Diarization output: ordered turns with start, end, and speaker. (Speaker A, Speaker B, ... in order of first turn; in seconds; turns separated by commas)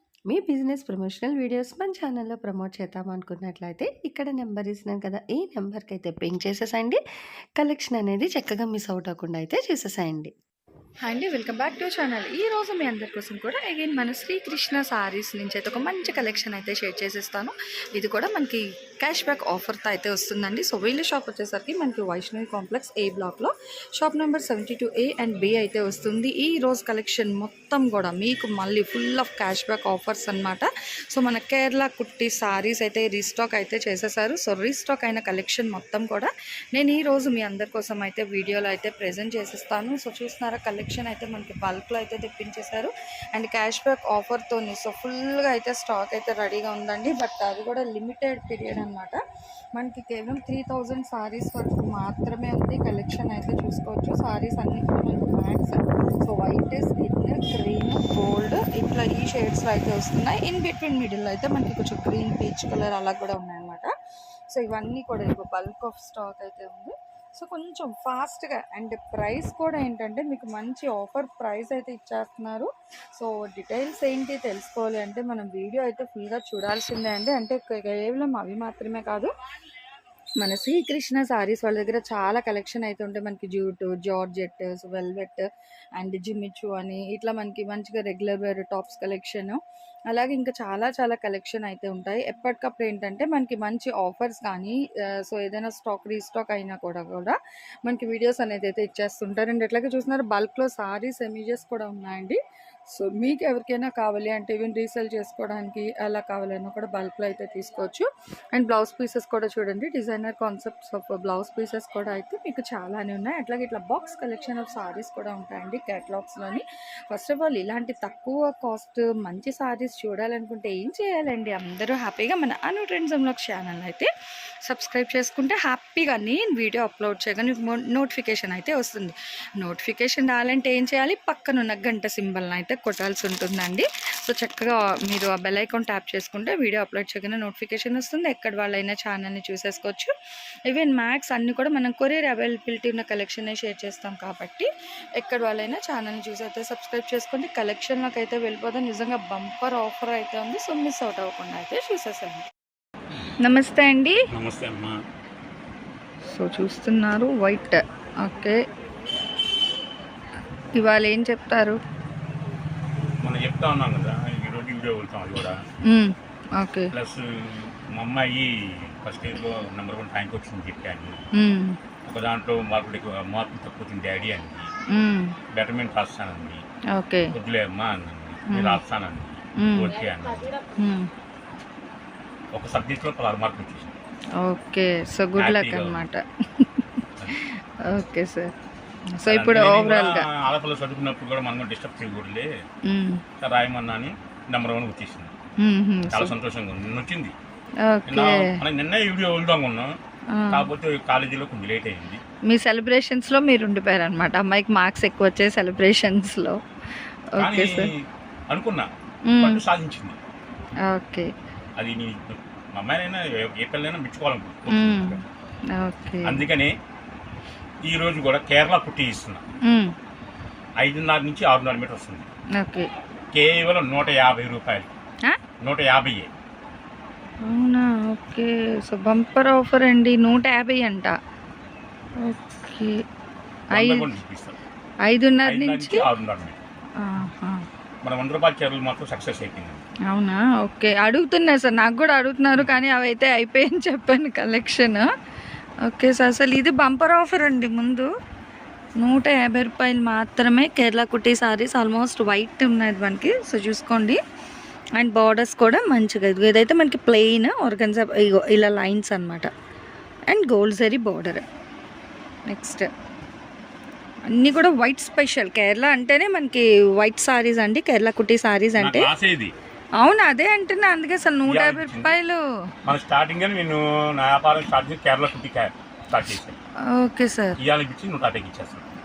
Speaker A: 0.3-7.0, Speaker A: 7.6-10.3, Speaker B: 11.0-49.2, Speaker B: 49.8-63.9, Speaker B: 64.5-79.3, Speaker B: 80.4-85.5, Speaker B: 86.0-124.1, Speaker B: 124.7-140.1, Speaker B: 140.7-152.5, Speaker B: 153.4-154.2, Speaker C: 154.3-155.0, Speaker B: 156.3-158.6, Speaker B: 160.7-161.8, Speaker C: 163.2-165.6, Speaker B: 165.8-166.9, Speaker C: 166.9-171.2, Speaker B: 171.3-171.8, Speaker C: 172.1-174.7, Speaker B: 174.9-175.3, Speaker C: 175.5-176.6, Speaker B: 177.0-177.3, Speaker C: 177.3-180.6, Speaker B: 178.5-178.8, Speaker B: 179.6-179.9, Speaker B: 180.8-181.1, Speaker C: 182.5-183.9, Speaker B: 184.4-188.5, Speaker C: 185.4-186.0, Speaker B: 189.2-190.3, Speaker C: 189.3-192.5, Speaker B: 192.9-193.2, Speaker C: 193.4-195.3, Speaker B: 195.6-196.3, Speaker C: 196.1-197.3, Speaker B: 197.9-198.6, Speaker C: 198.1-199.9, Speaker B: 200.4-200.7, Speaker C: 200.5-202.2, Speaker B: 202.5-206.6, Speaker B: 207.3-207.9, Speaker C: 207.4-207.9, Speaker C: 208.5-210.2, Speaker B: 209.3-209.6, Speaker B: 210.9-211.3, Speaker C: 211.8-215.2, Speaker B: 214.7-215.2, Speaker B: 215.7-216.4, Speaker C: 216.2-216.7, Speaker C: 217.9-219.4, Speaker B: 219.7-219.9, Speaker C: 220.8-222.3, Speaker B: 222.6-222.9, Speaker C: 223.3-224.9, Speaker C: 225.6-226.3, Speaker B: 227.4-231.2, Speaker B: 232.2-233.0, Speaker B: 233.7-234.1, Speaker C: 233.7-234.6, Speaker B: 235.1-236.1, Speaker C: 235.4-236.6, Speaker B: 237.0-237.6, Speaker C: 238.0-239.8, Speaker B: 240.1-245.1, Speaker B: 245.9-248.1, Speaker B: 249.0-254.2, Speaker B: 255.0-259.5, Speaker B: 260.3-261.4, Speaker B: 262.5-262.9, Speaker B: 264.3-269.1, Speaker C: 268.8-269.5, Speaker B: 270.0-272.4, Speaker C: 271.5-272.2, Speaker C: 272.9-276.6, Speaker B: 276.9-277.6, Speaker C: 277.6-278.9